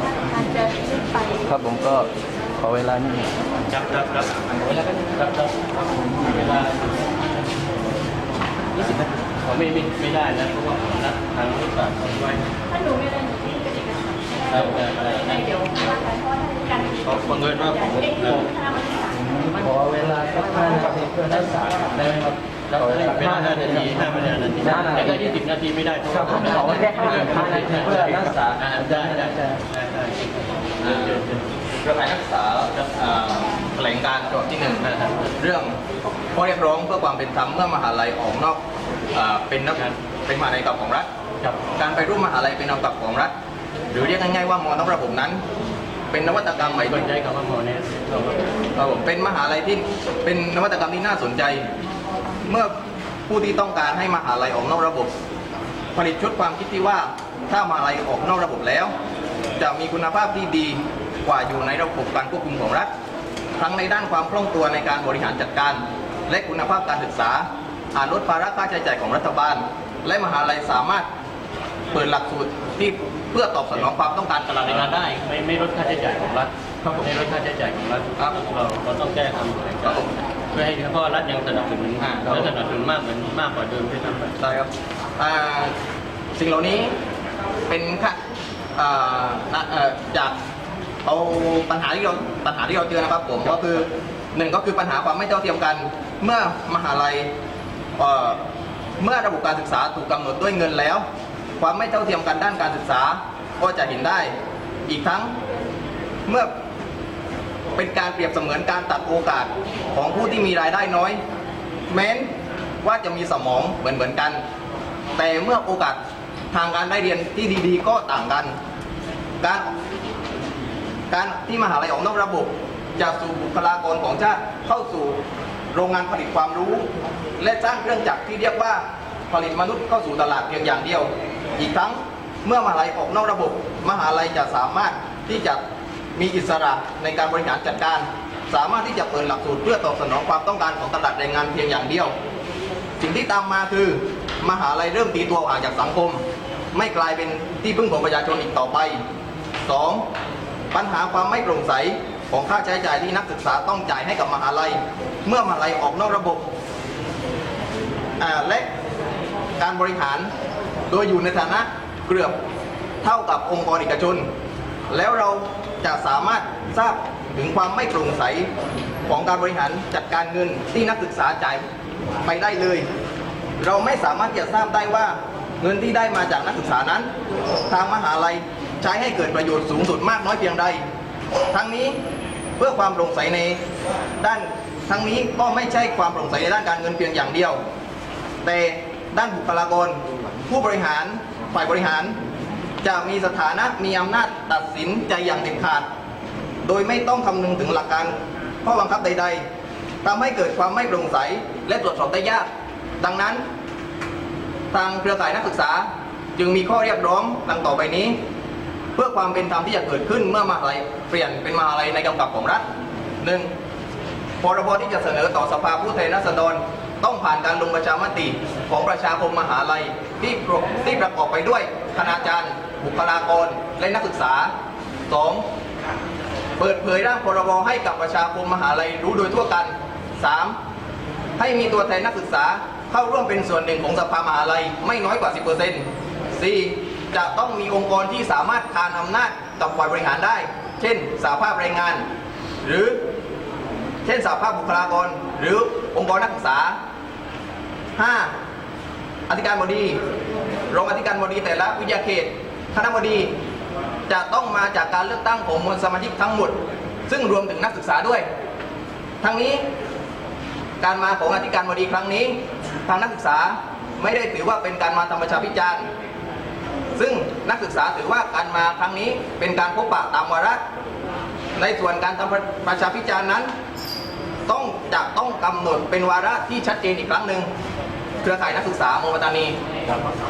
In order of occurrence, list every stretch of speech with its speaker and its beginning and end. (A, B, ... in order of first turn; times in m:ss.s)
0:00.4-0:01.4 A
0:01.4-0:03.3 B
0:03.7-0:07.0 C
0:08.8-0:12.5 C
0:12.8-0:14.3 A
0:14.5-0:15.9 C
0:15.6-0:16.8 A
0:16.9-0:18.6 C
0:18.6-0:19.1 A
0:19.4-0:24.0 B
0:22.7-0:31.4 C
0:24.6-0:25.2 B
0:26.2-0:28.4 B
0:29.0-0:29.4 B
0:30.8-0:31.2 D
0:31.8-0:35.8 D
0:34.8-0:35.3 C
0:36.3-0:38.6 D
0:39.1-0:41.1 D
0:41.8-0:43.3 D
0:43.9-0:45.4 D
0:46.1-0:47.0 D
0:46.6-0:48.4 C
0:48.8-0:51.6 D
0:52.4-0:52.7 D
0:53.3-0:55.1 D
0:55.9-0:58.9 D
0:59.6-1:02.9 D
1:03.6-1:11.0 D
1:11.9-1:14.9 D
1:14.6-1:24.4 C
1:22.0-1:22.5 D
1:24.4-1:25.7 D
1:26.3-1:26.9 D
1:27.7-1:28.2 D
1:28.8-1:30.3 D
1:31.0-1:37.3 D
1:38.0-1:38.4 D
1:39.0-1:41.0 D
1:41.6-1:44.3 D
1:44.9-1:45.3 D
1:47.8-1:51.2 D
1:51.9-1:52.3 D
1:52.8-1:54.4 D
1:55.2-1:56.0 D
1:56.5-1:58.5 D
1:59.4-1:59.7 D
2:01.1-2:05.2 D
2:05.7-2:06.9 D
2:07.4-2:15.6 D
2:16.2-2:22.1 D
2:23.0-2:26.2 D
2:26.7-2:29.0 D
2:29.6-2:30.0 D
2:30.7-2:36.4 D
2:38.2-2:38.7 D
2:39.6-2:40.3 D
2:40.9-2:42.3 D
2:43.0-2:44.2 D
2:44.9-2:48.5 D
2:49.0-2:51.6 D
2:52.2-2:52.8 D
2:53.6-2:57.1 D
2:57.7-3:00.8 D
3:01.5-3:02.0 D
3:02.6-3:03.6 D
3:04.2-3:07.6 D
3:08.4-3:12.2 D
3:12.8-3:15.8 D
3:16.6-3:19.4 D
3:20.0-3:22.5 D
3:23.0-3:23.4 D
3:24.7-3:28.1 D
3:29.0-3:32.6 D
3:33.2-3:33.5 D
3:34.4-3:44.5 D
3:45.1-3:45.4 D
3:46.6-3:50.6 D
3:51.4-4:02.0 D
4:02.6-4:03.0 D
4:04.0-4:06.8 D
4:08.0-4:08.3 D
4:09.3-4:10.0 D
4:10.7-4:13.3 D
4:14.1-4:16.5 D
4:17.1-4:18.2 D
4:19.2-4:19.6 D
4:20.8-4:25.9 D
4:26.9-4:30.6 D
4:31.6-4:33.5 D
4:34.5-4:37.5 D
4:38.2-4:39.6 D